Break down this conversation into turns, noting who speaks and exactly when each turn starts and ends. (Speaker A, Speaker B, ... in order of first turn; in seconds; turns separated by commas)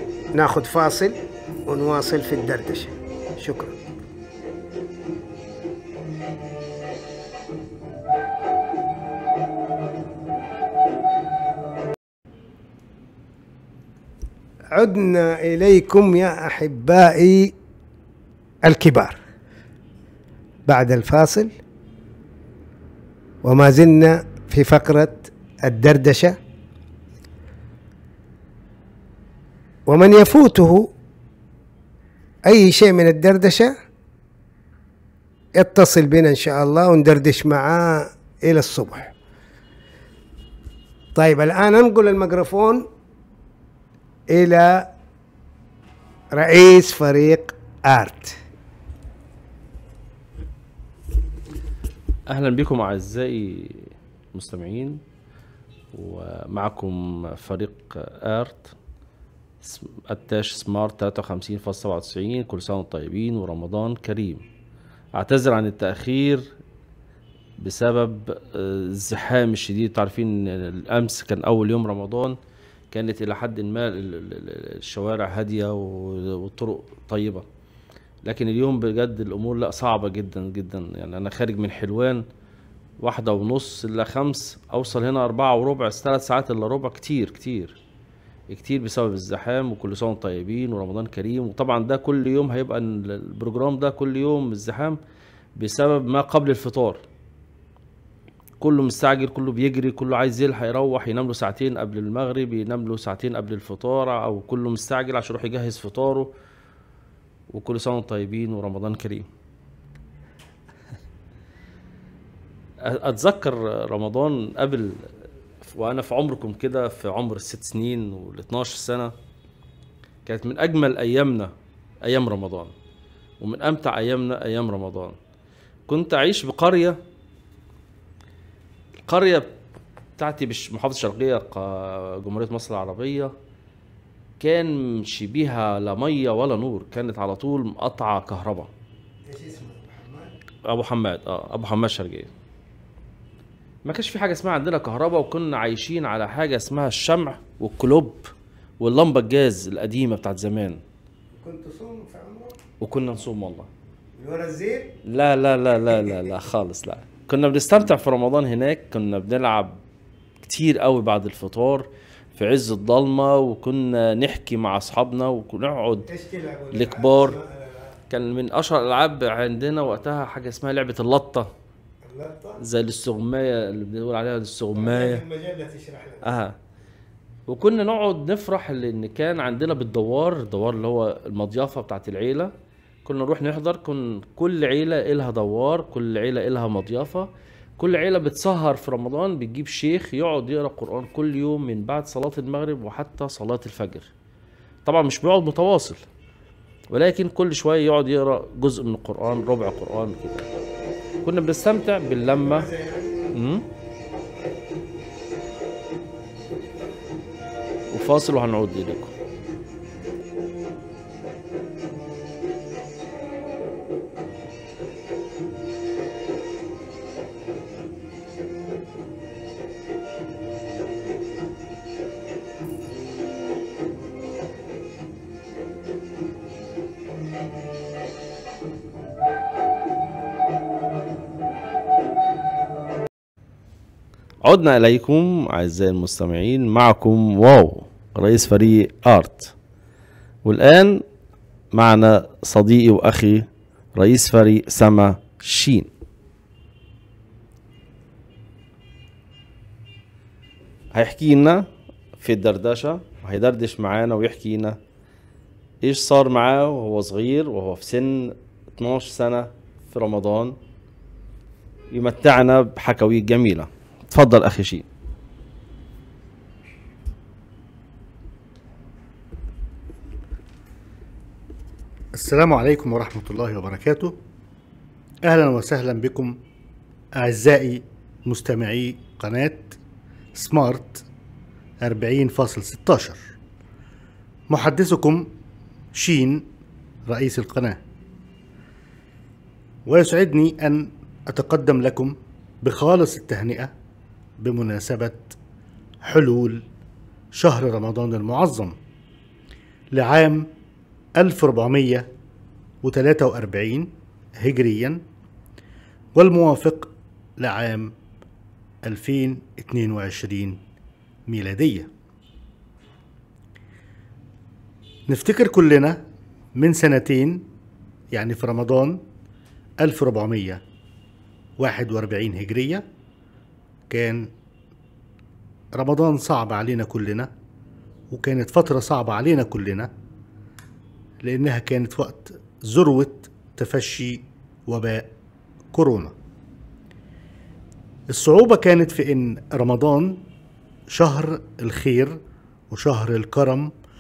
Speaker A: 0.3-3.8, Speaker A: 14.7-17.5, Speaker A: 18.6-19.2, Speaker A: 20.7-21.5, Speaker A: 23.4-26.4, Speaker A: 29.9-30.9, Speaker A: 32.5-33.8, Speaker A: 35.6-39.1, Speaker A: 41.1-42.9, Speaker A: 44.3-44.9, Speaker A: 46.3-48.4, Speaker B: 52.3-55.0, Speaker B: 55.9-58.7, Speaker B: 59.6-64.4, Speaker B: 65.2-66.5, Speaker B: 67.6-72.4, Speaker B: 72.9-77.5, Speaker B: 78.2-82.2, Speaker B: 83.0-87.8, Speaker B: 88.5-95.0, Speaker B: 95.6-97.0, Speaker B: 98.6-106.3, Speaker B: 107.5-109.3, Speaker B: 112.8-115.1, Speaker B: 115.6-119.1, Speaker B: 120.3-122.7, Speaker B: 123.4-125.2, Speaker B: 125.9-127.0, Speaker B: 129.1-129.5, Speaker B: 130.2-133.3, Speaker B: 134.4-138.7, Speaker A: 139.3-140.3, Speaker B: 140.7-142.3, Speaker B: 143.8-150.8, Speaker A: 151.4-152.6, Speaker B: 152.8-153.7, Speaker A: 154.2-155.0, Speaker B: 155.1-159.8, Speaker A: 155.8-156.3, Speaker B: 160.4-166.1, Speaker A: 166.1-168.0, Speaker B: 166.7-167.4, Speaker B: 168.1-171.5, Speaker A: 172.1-172.6, Speaker B: 172.6-175.2, Speaker A: 174.7-176.3, Speaker B: 176.2-176.6, Speaker B: 177.5-182.5, Speaker B: 183.1-194.1, Speaker B: 194.9-196.0, Speaker B: 196.9-200.5, Speaker B: 201.2-202.7, Speaker A: 202.2-203.2, Speaker B: 203.3-203.6, Speaker B: 207.9-209.1, Speaker B: 234.4-239.5, Speaker B: 240.4-241.0, Speaker B: 241.7-245.9, Speaker B: 250.9-251.6, Speaker B: 252.2-254.8, Speaker B: 255.8-260.6, Speaker B: 261.9-264.9, Speaker C: 272.1-274.2, Speaker C: 275.2-276.4, Speaker C: 277.2-279.8, Speaker C: 280.4-281.1, Speaker C: 281.8-283.2, Speaker C: 284.5-285.3, Speaker C: 285.9-286.5, Speaker C: 287.1-287.8, Speaker C: 289.9-293.7, Speaker C: 294.4-295.4, Speaker C: 296.0-296.7, Speaker C: 297.3-298.8, Speaker C: 299.9-300.5, Speaker C: 301.2-302.1, Speaker C: 302.8-305.0, Speaker C: 306.1-307.9, Speaker C: 308.9-310.6, Speaker C: 311.3-311.9, Speaker C: 315.1-316.0, Speaker C: 316.6-317.5, Speaker C: 318.1-319.0, Speaker C: 319.8-320.6, Speaker C: 321.6-322.9, Speaker C: 323.9-324.3, Speaker C: 325.7-327.3, Speaker C: 328.1-329.9, Speaker C: 331.2-335.1, Speaker C: 335.7-336.1, Speaker C: 338.1-340.2, Speaker C: 340.9-342.2, Speaker C: 342.7-343.7